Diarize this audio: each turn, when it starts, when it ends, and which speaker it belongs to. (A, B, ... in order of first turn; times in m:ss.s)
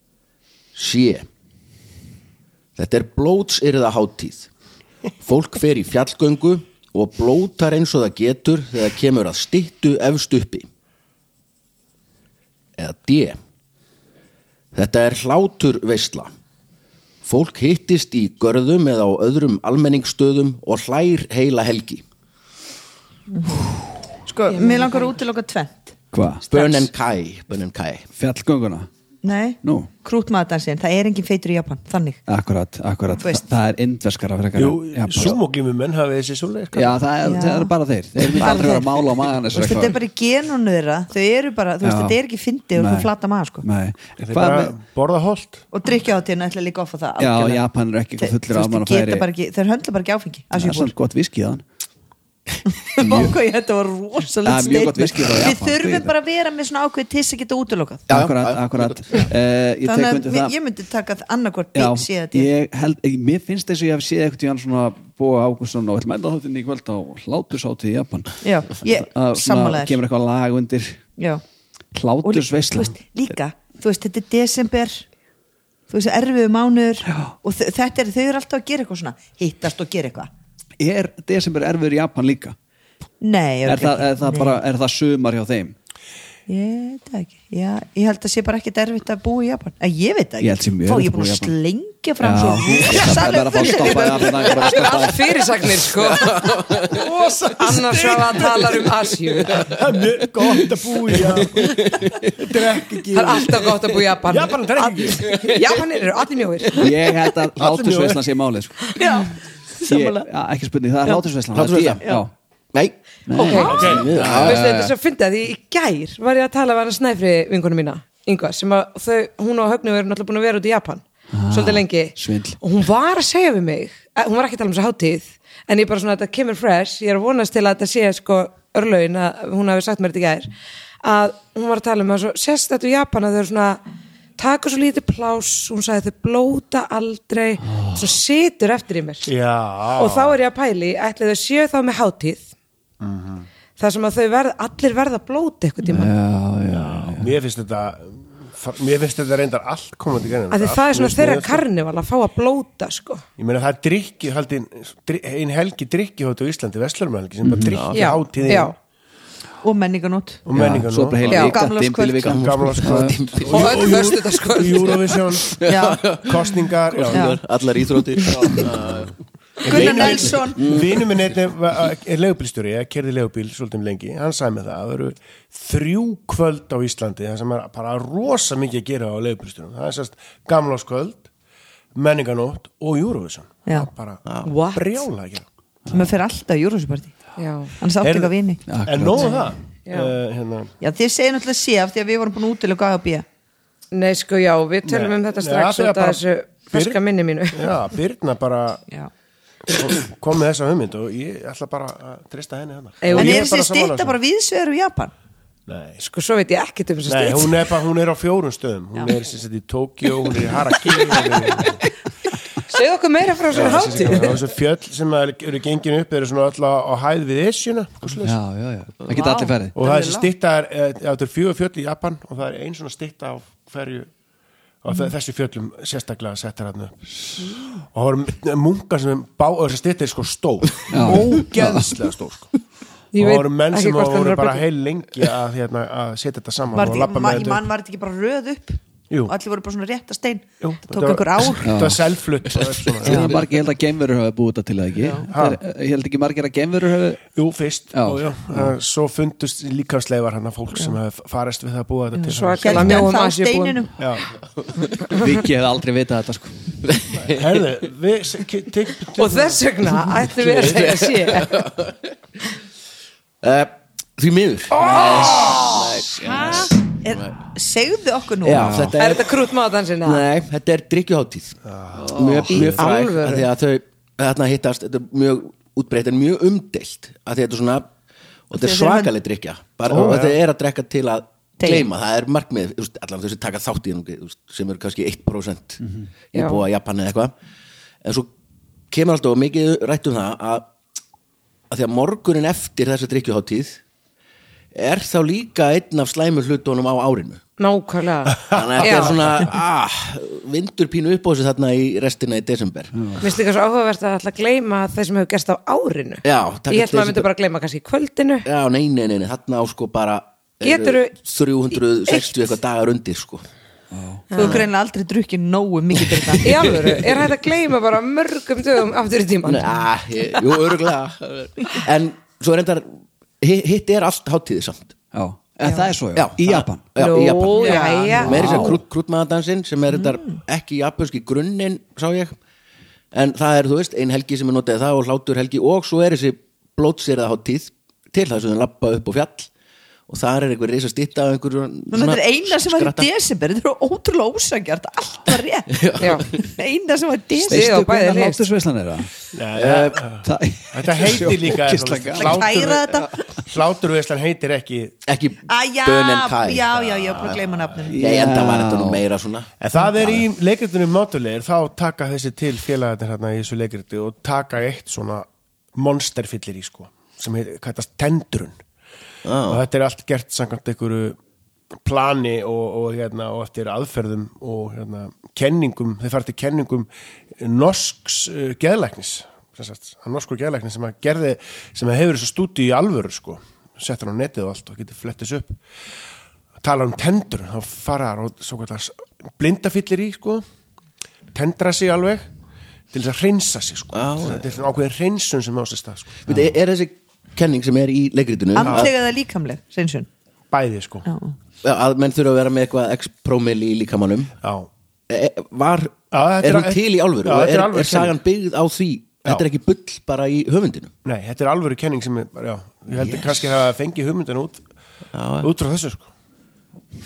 0:00.8-0:01.3 A
0:02.8-0:04.5 A
0:05.2-0:10.7 A
0:12.8-0:13.4 A
0:14.7-0:16.3 A
0:17.2-0:22.0 A
0:23.3-0:23.7 B
0:24.2-0:26.0 B
0:24.5-0:25.1 C
0:26.1-0:26.5 D
0:26.5-0:28.1 A
0:26.5-0:26.8 B
0:28.2-0:28.9 D
0:29.2-0:32.2 B
0:29.6-0:29.9 D
0:32.3-0:35.4 D
0:33.2-0:33.4 B
0:34.6-0:37.0 E
0:36.7-0:40.0 D
0:37.2-0:43.6 B
0:41.8-0:42.2 D
0:42.7-0:44.8 D
0:44.2-0:45.6 E
0:45.7-0:47.6 B
0:47.2-0:49.3 D
0:48.2-0:50.9 B
0:50.5-0:51.6 D
0:52.8-0:58.1 B
0:53.0-0:53.4 D
0:54.4-0:56.1 D
0:58.1-0:59.3 A
0:58.1-1:00.5 D
0:59.8-1:02.5 B
1:01.8-1:11.0 D
1:08.4-1:10.0 B
1:11.2-1:11.4 B
1:11.9-1:12.9 D
1:12.2-1:15.0 B
1:15.9-1:20.3 B
1:17.1-1:17.3 D
1:20.8-1:22.6 D
1:23.2-1:24.6 B
1:23.7-1:25.8 D
1:26.5-1:35.0 B
1:30.4-1:31.5 D
1:32.2-1:35.3 D
1:34.5-1:36.5 C
1:36.0-1:37.0 A
1:36.8-1:45.4 E
1:37.6-1:39.7 C
1:41.2-1:42.5 A
1:43.1-1:47.0 C
1:45.3-1:45.7 A
1:46.8-1:48.9 D
1:47.6-1:48.2 E
1:49.0-1:50.3 B
1:49.8-1:52.3 D
1:51.5-1:52.0 A
1:52.7-1:54.6 A
1:53.3-1:54.9 D
1:53.4-2:10.5 C
1:53.6-1:54.2 E
2:01.3-2:02.6 D
2:11.0-2:13.8 C
2:14.4-2:19.3 C
2:17.7-2:18.1 D
2:19.3-2:20.4 E
2:20.0-2:22.4 C
2:23.0-2:23.5 E
2:23.8-2:26.1 C
2:25.9-2:27.4 D
2:26.7-2:31.6 E
2:30.5-2:33.2 C
2:33.4-2:38.8 E
2:37.4-2:37.8 D
2:37.6-2:38.1 A
2:37.9-2:38.8 C
2:39.6-2:40.4 B
2:40.5-2:41.5 E
2:40.5-2:43.2 D
2:41.3-2:41.6 C
2:41.3-2:42.4 B
2:42.2-2:44.1 A
2:42.3-2:47.3 E
2:43.5-2:45.2 C
2:45.5-2:49.2 A
2:45.6-2:46.0 B
2:47.1-2:47.4 B
2:48.3-2:48.7 D
2:49.6-3:01.3 E
2:49.6-2:50.8 B
2:49.7-2:51.2 A
3:02.0-3:05.4 E
3:04.3-3:04.5 A
3:04.4-3:05.0 C
3:05.9-3:07.2 B
3:07.4-3:07.7 C
3:07.8-3:08.6 B
3:08.0-3:08.3 E
3:08.7-3:09.4 D
3:08.8-3:10.7 E
3:09.9-3:10.1 C
3:10.8-3:13.2 B
3:13.9-3:17.8 C
3:14.8-3:16.2 E
3:16.7-3:17.0 E
3:17.5-3:18.8 E
3:19.7-3:24.2 E
3:23.0-3:23.5 C
3:23.1-3:25.1 B
3:25.7-3:26.0 E
3:26.0-3:27.7 C
3:27.1-3:31.8 E
3:32.7-3:34.5 C
3:33.5-3:38.4 E
3:38.2-3:39.8 D
3:39.1-3:40.3 B
3:39.8-3:44.1 E
3:44.8-3:52.5 E
3:50.9-3:51.9 D
3:53.1-3:54.6 C
3:53.2-3:57.6 E
3:56.7-4:01.9 B
4:00.6-4:03.5 E
4:01.6-4:02.0 D
4:03.0-4:07.2 D
4:03.1-4:03.3 B
4:05.0-4:05.3 B
4:05.3-4:05.6 E
4:07.3-4:13.1 E
4:07.9-4:08.7 D
4:12.2-4:14.0 B
4:12.3-4:13.8 C
4:14.0-4:14.3 E
4:15.1-4:16.8 D
4:15.1-4:15.4 C
4:16.8-4:17.7 A
4:17.2-4:19.6 E
4:19.1-4:21.6 C
4:20.4-4:22.2 A
4:23.4-4:27.4 A
4:24.8-4:26.0 C
4:26.1-4:28.9 B
4:28.4-4:29.4 A
4:28.5-4:29.0 D
4:29.0-4:30.3 C
4:30.0-4:37.9 A
4:31.7-4:32.1 E
4:32.0-4:32.7 D
4:32.5-4:33.5 C
4:38.5-4:45.8 A
4:38.5-4:39.1 B
4:39.9-4:40.4 E
4:41.6-4:41.9 B
4:46.3-4:47.3 A
4:46.3-4:46.6 C
4:48.0-4:48.3 A
4:48.9-4:50.7 A
4:51.7-4:53.8 A
4:54.7-4:57.4 A
4:57.6-4:59.4 C
4:58.5-5:03.2 A
4:58.5-4:59.0 E
5:03.0-5:03.2 D
5:03.2-5:08.5 C
5:06.2-5:07.3 A
5:08.4-5:13.4 A
5:10.6-5:11.1 C
5:13.9-5:14.2 D
5:14.3-5:14.6 C
5:14.3-5:16.7 B
5:14.4-5:14.6 A
5:16.4-5:19.7 C
5:16.6-5:17.0 A
5:19.5-5:25.0 A
5:25.1-5:26.9 D
5:26.2-5:32.4 A
5:27.0-5:28.8 C
5:27.5-5:28.8 B
5:28.2-5:28.7 D
5:33.1-5:39.5 A
5:40.1-5:43.1 A
5:41.9-5:47.7 B
5:45.7-5:46.4 A
5:46.0-5:46.2 C
5:47.4-5:49.1 D
5:47.5-5:48.4 C
5:49.3-5:55.0 E
5:49.6-5:50.0 A
5:50.2-5:53.3 D
5:52.2-5:53.1 B
5:55.1-6:00.2 A
5:55.5-5:58.0 B
5:57.9-5:59.1 D
5:59.6-6:08.6 E
6:09.2-6:09.6 A
6:09.5-6:11.2 E
6:11.8-6:25.6 E
6:26.6-6:30.4 E
6:31.3-6:32.3 E
6:32.9-6:36.2 E
6:33.9-6:34.5 A
6:36.3-6:38.9 A
6:38.6-6:40.1 B
6:38.6-6:38.9 E
6:40.5-6:41.1 E
6:41.1-6:41.3 B
6:41.6-6:44.3 A
6:44.4-6:44.7 E
6:45.1-6:50.9 A
6:46.1-6:48.2 E
6:51.0-6:54.6 E
6:52.9-6:53.4 A
6:55.1-6:55.5 A
6:55.4-6:56.1 E